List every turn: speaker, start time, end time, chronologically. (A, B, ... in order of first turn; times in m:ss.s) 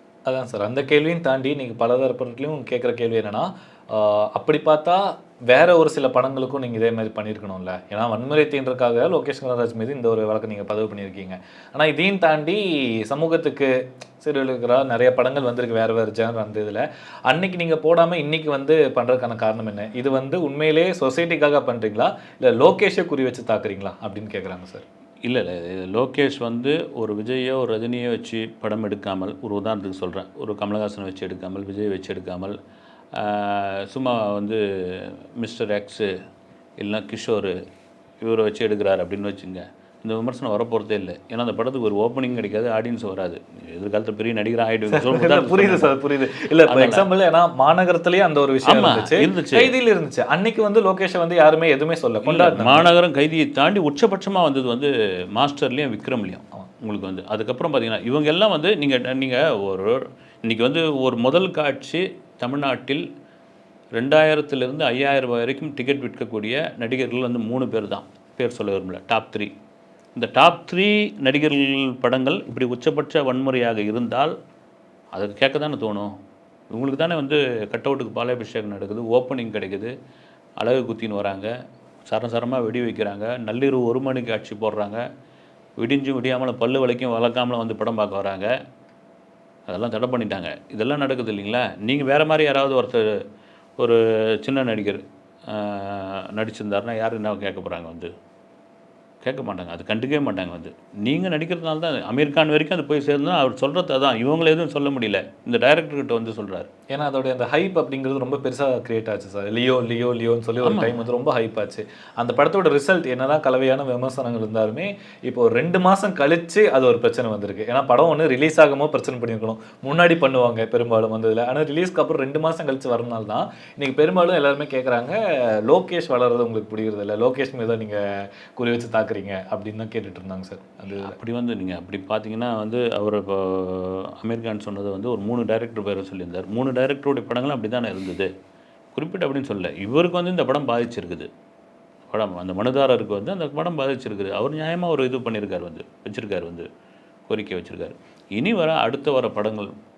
0:00.3-0:24.8 A
0:25.2-0:32.6 B
0:33.2-0:36.1 B
0:36.8-0:37.6 B
0:38.2-0:47.1 B
0:44.9-0:52.9 A
0:48.7-0:49.7 B
0:52.2-1:03.0 B
1:04.0-1:09.5 B
1:10.2-1:14.3 B
1:15.1-1:16.1 B
1:16.7-1:19.9 B
1:20.6-1:21.5 B
1:22.1-1:25.0 B
1:25.8-1:28.5 B
1:29.7-1:33.2 B
1:33.8-1:38.1 B
1:39.2-1:46.7 B
1:46.9-2:08.0 A
1:50.6-1:51.0 B
2:08.6-2:11.2 A
2:11.0-2:18.3 B
2:19.0-2:21.3 B
2:22.1-2:26.7 B
2:27.3-2:29.7 B